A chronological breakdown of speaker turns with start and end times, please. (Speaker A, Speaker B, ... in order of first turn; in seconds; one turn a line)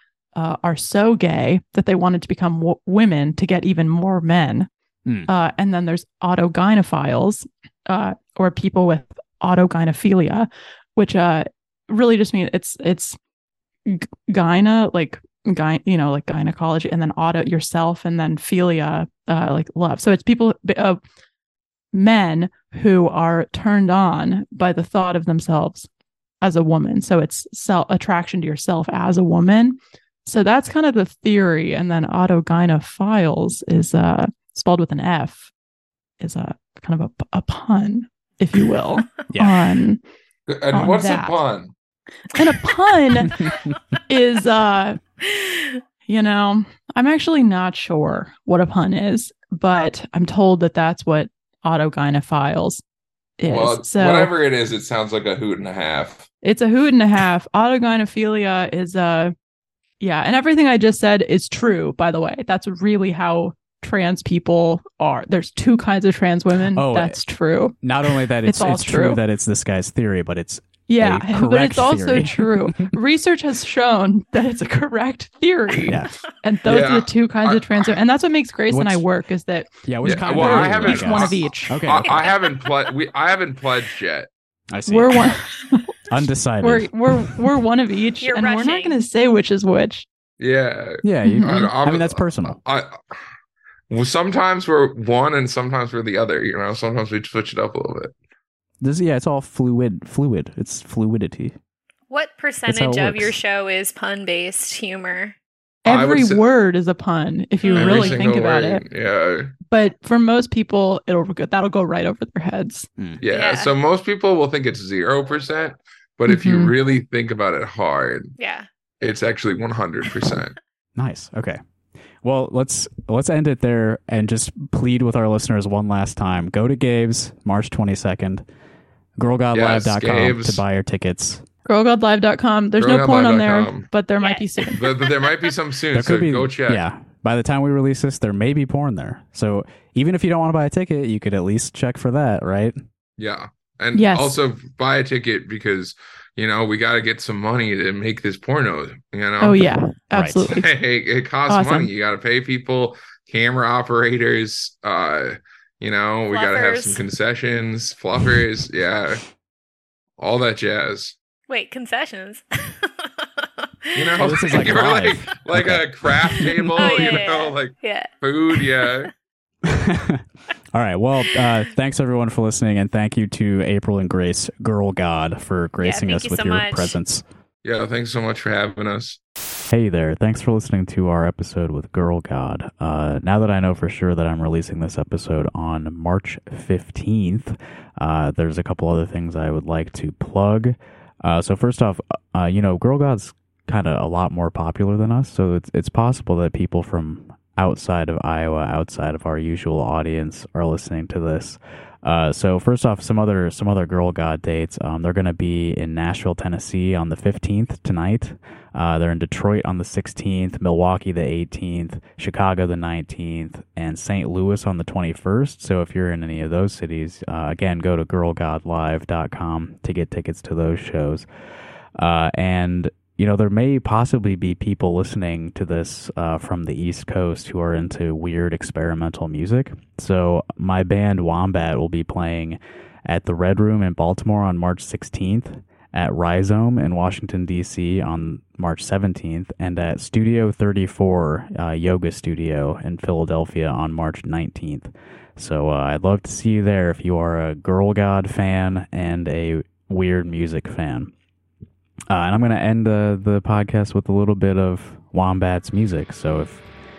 Speaker A: 0.3-4.7
Speaker A: 5.3-13.2
Speaker A: 13.8-21.0
Speaker A: 21.9-25.9
Speaker A: 26.4-35.5
Speaker A: 36.2-40.0
Speaker B: 39.3-39.6
Speaker C: 40.5-41.7
Speaker A: 40.7-41.4
Speaker A: 42.3-43.5
Speaker A: 44.1-45.0
Speaker D: 45.3-45.8
Speaker A: 46.1-52.8
Speaker A: 53.4-54.3
Speaker C: 53.5-56.3
Speaker A: 56.4-59.3
Speaker A: 60.0-67.8
Speaker B: 66.7-67.2
Speaker B: 67.8-72.9
Speaker A: 68.4-69.2
Speaker A: 70.9-81.8
Speaker B: 75.9-76.1
Speaker C: 76.7-78.0
Speaker B: 78.7-79.0
Speaker B: 79.8-82.2
Speaker C: 80.0-84.3
Speaker D: 82.0-82.7
Speaker B: 84.7-85.1
Speaker A: 84.9-85.9
Speaker B: 86.1-86.9
Speaker A: 86.6-90.0
Speaker D: 88.2-89.0
Speaker C: 90.4-93.1
Speaker B: 91.0-92.6
Speaker A: 91.2-91.7
Speaker C: 93.9-98.1
Speaker B: 98.8-101.5
Speaker D: 102.1-105.3
Speaker B: 102.7-103.4
Speaker A: 105.8-108.8
Speaker C: 105.8-106.4
Speaker D: 107.6-108.2
Speaker C: 107.8-109.5
Speaker A: 109.7-112.9
Speaker C: 113.2-118.3
Speaker D: 113.3-113.7
Speaker A: 116.3-116.7
Speaker D: 118.4-118.7
Speaker C: 119.0-120.5
Speaker B: 121.0-121.6
Speaker B: 122.2-128.4
Speaker B: 129.2-131.4
Speaker C: 129.5-130.6
Speaker A: 131.7-134.9
Speaker C: 132.8-133.9
Speaker D: 134.2-134.7
Speaker C: 134.7-136.8
Speaker B: 135.9-142.7
Speaker C: 143.2-149.6
Speaker A: 143.9-144.4
Speaker A: 149.4-150.7
Speaker B: 150.1-150.4
Speaker C: 150.5-159.2
Speaker A: 151.5-151.9
Speaker D: 156.3-157.0
Speaker C: 160.2-161.1
Speaker D: 161.5-164.8
Speaker C: 163.9-169.1
Speaker B: 164.2-166.9
Speaker D: 166.8-168.9
Speaker B: 169.6-177.2
Speaker D: 175.8-177.0
Speaker C: 177.6-179.2
Speaker B: 179.7-221.2
Speaker B: 222.0-251.1
Speaker B: 252.1-256.6